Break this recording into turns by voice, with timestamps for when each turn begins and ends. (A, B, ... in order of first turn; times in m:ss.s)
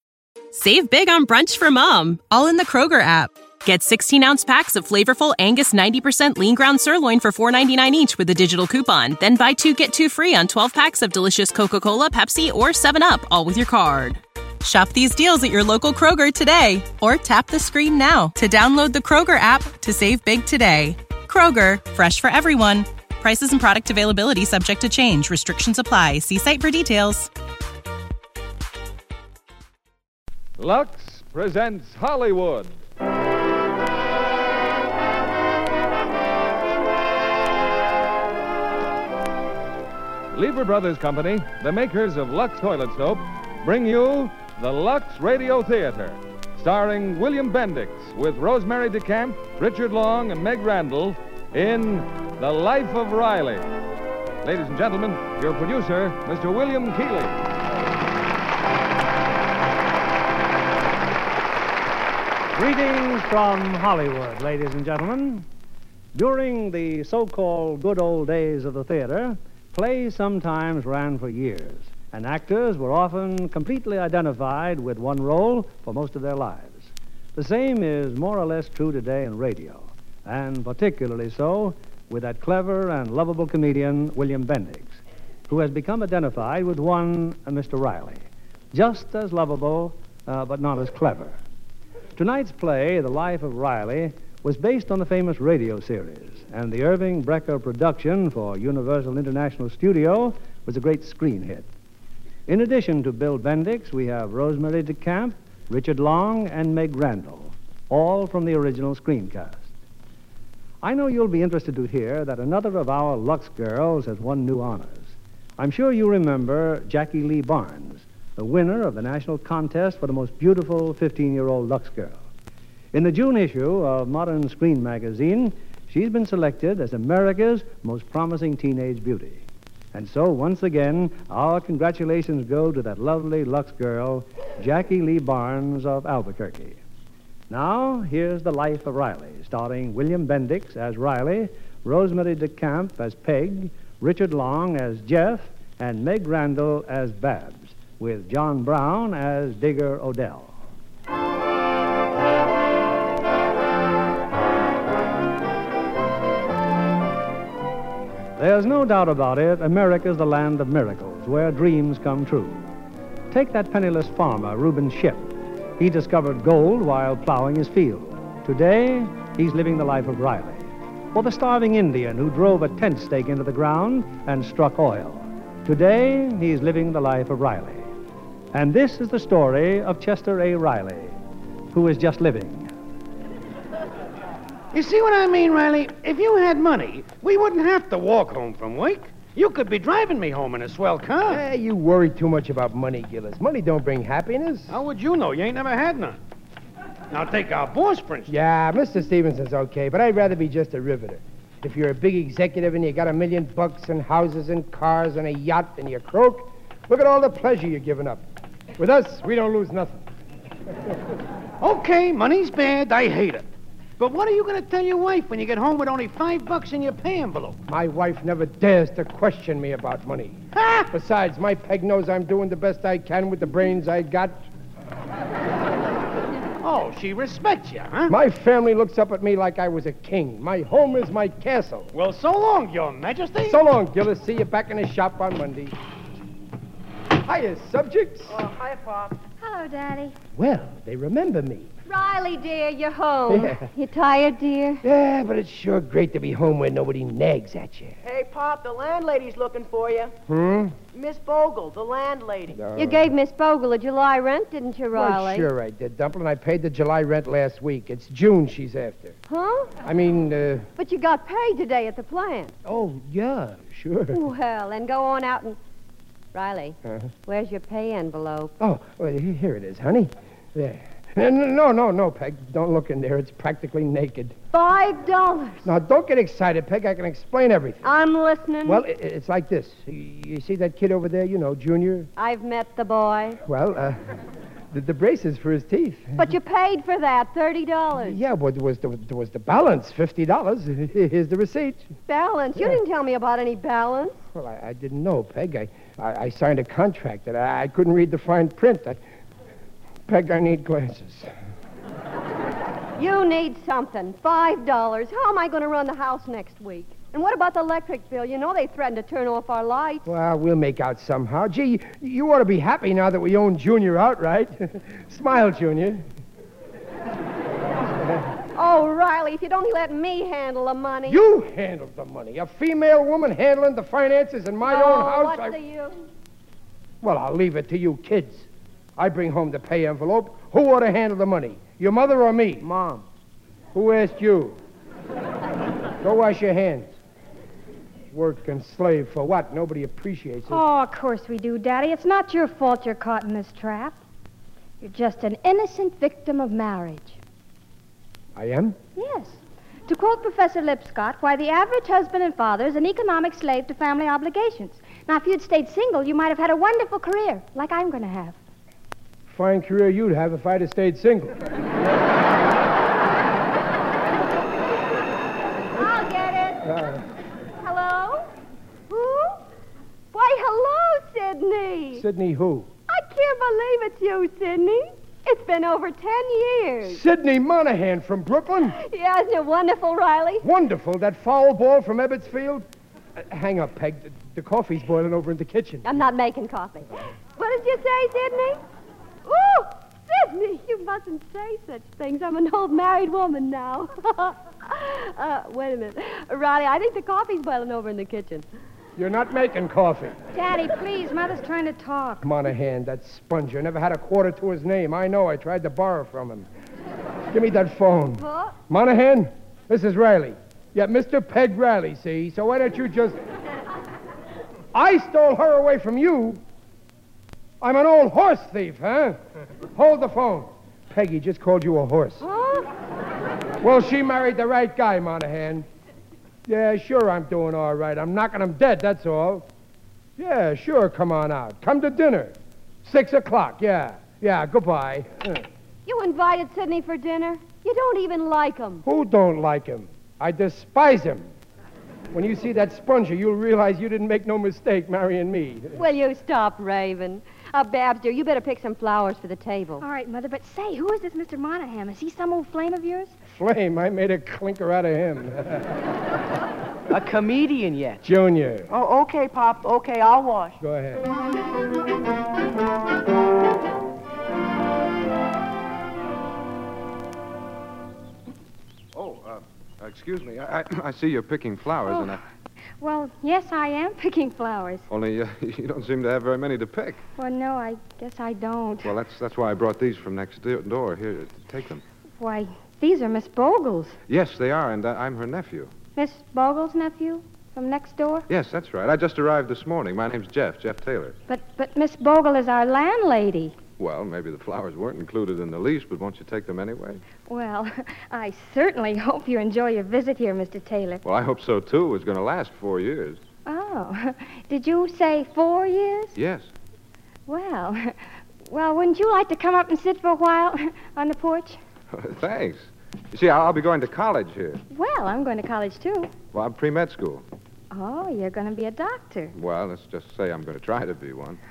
0:00.5-0:27.3 A
0:30.6-0:32.7 B
0:40.3-0:53.6 B
0:54.4-0:57.4 B
1:02.5-1:05.4 C
1:06.1-1:31.4 C
1:32.2-1:41.6 C
1:42.5-1:49.7 C
1:50.8-2:02.2 C
2:02.9-2:16.8 C
2:17.5-2:30.6 C
2:38.4-2:42.7 C
2:43.3-2:57.9 C
2:58.5-3:01.2 C
3:01.7-3:02.7 C
3:04.7-3:11.4 D
3:11.3-3:14.7 E
3:14.7-3:16.2 D
3:17.1-3:18.3 D
3:18.3-3:28.2 E
3:28.8-3:30.0 E
3:31.6-3:33.5 D
3:34.0-3:37.6 D
3:37.7-3:40.4 E
3:40.5-3:40.9 D
3:40.9-3:44.4 E
3:46.6-3:48.1 D
3:48.1-3:51.9 E
3:51.9-3:53.6 D
3:53.4-3:55.8 E
3:57.2-3:58.4 E
3:59.4-4:00.2 F
4:00.3-4:01.7 E
4:01.8-4:04.8 G
4:03.3-4:03.6 E
4:04.8-4:08.0 E
4:08.0-4:10.1 H
4:10.3-4:10.8 E
4:10.9-4:12.6 H
4:12.5-4:13.1 E
4:12.7-4:15.5 G
4:14.9-4:19.2 E
4:19.3-4:19.8 G
4:19.8-4:20.7 E
4:20.8-4:22.6 G
4:22.6-4:24.2 E
4:24.1-4:25.6 G
4:26.3-4:28.5 G
4:28.6-4:34.4 E
4:34.5-4:35.7 G
4:35.6-4:37.9 E
4:37.8-4:38.8 G
4:38.6-4:42.1 E
4:42.2-4:43.4 G
4:43.4-4:44.0 E
4:44.7-4:46.3 E
4:46.2-4:48.2 G
4:48.0-4:51.9 E
4:52.1-4:54.2 G
4:54.3-4:59.0 E
5:00.1-5:01.3 E
5:03.0-5:10.1 G
5:10.0-5:16.0 E
5:18.5-5:21.2 G
5:21.0-5:25.6 E
5:24.6-5:26.1 G
5:27.0-5:32.6 E
5:32.6-5:33.0 H
5:33.7-5:34.6 E
5:36.0-5:36.9 E
5:38.1-5:40.6 E
5:40.5-5:44.0 F
5:44.8-5:47.2 F
5:48.3-5:48.8 E
5:49.0-5:58.4 F
5:59.3-6:01.3 E
6:05.7-6:06.6 G
6:06.6-6:07.0 E
6:07.6-6:08.3 G
6:08.9-6:09.4 G
6:10.1-6:12.0 G
6:11.9-6:12.7 E
6:12.9-6:17.0 G
6:16.8-6:18.8 E
6:18.7-6:20.4 G
6:20.4-6:25.9 E
6:25.8-6:28.6 G
6:29.2-6:38.4 G
6:39.0-6:40.2 E
6:40.3-6:42.3 F
6:42.2-6:46.5 E
6:47.3-6:53.2 E
6:48.2-6:48.6 G
6:54.7-6:56.4 E
6:57.6-6:59.2 E
6:59.7-7:02.2 E
7:02.2-7:02.7 G
7:03.6-7:05.6 E
7:06.4-7:09.5 E
7:10.2-7:15.4 E
7:15.8-7:18.8 G
7:18.8-7:21.3 E
7:22.1-7:25.8 E
7:25.7-7:29.8 G
7:29.8-7:33.2 F
7:33.2-7:35.7 E
7:36.9-7:38.0 H
7:38.0-7:38.7 E
7:38.7-7:40.6 H
7:40.6-7:41.1 E
7:48.9-7:52.2 I
7:52.8-7:54.9 F
7:54.9-7:57.0 I
7:57.2-7:58.9 F
7:58.8-8:01.8 I
8:02.2-8:04.0 F
8:04.1-8:05.7 I
8:06.0-8:08.3 F
8:08.3-8:11.2 I
8:11.3-8:13.6 F
8:13.8-8:17.0 I
8:17.2-8:21.0 F
8:21.0-8:23.2 I
8:23.4-8:26.2 F
8:26.2-8:26.5 I
8:27.3-8:31.6 F
8:31.9-8:34.6 I
8:34.7-8:36.1 F
8:36.3-8:37.2 I
8:37.7-8:39.3 F
8:39.3-8:41.4 I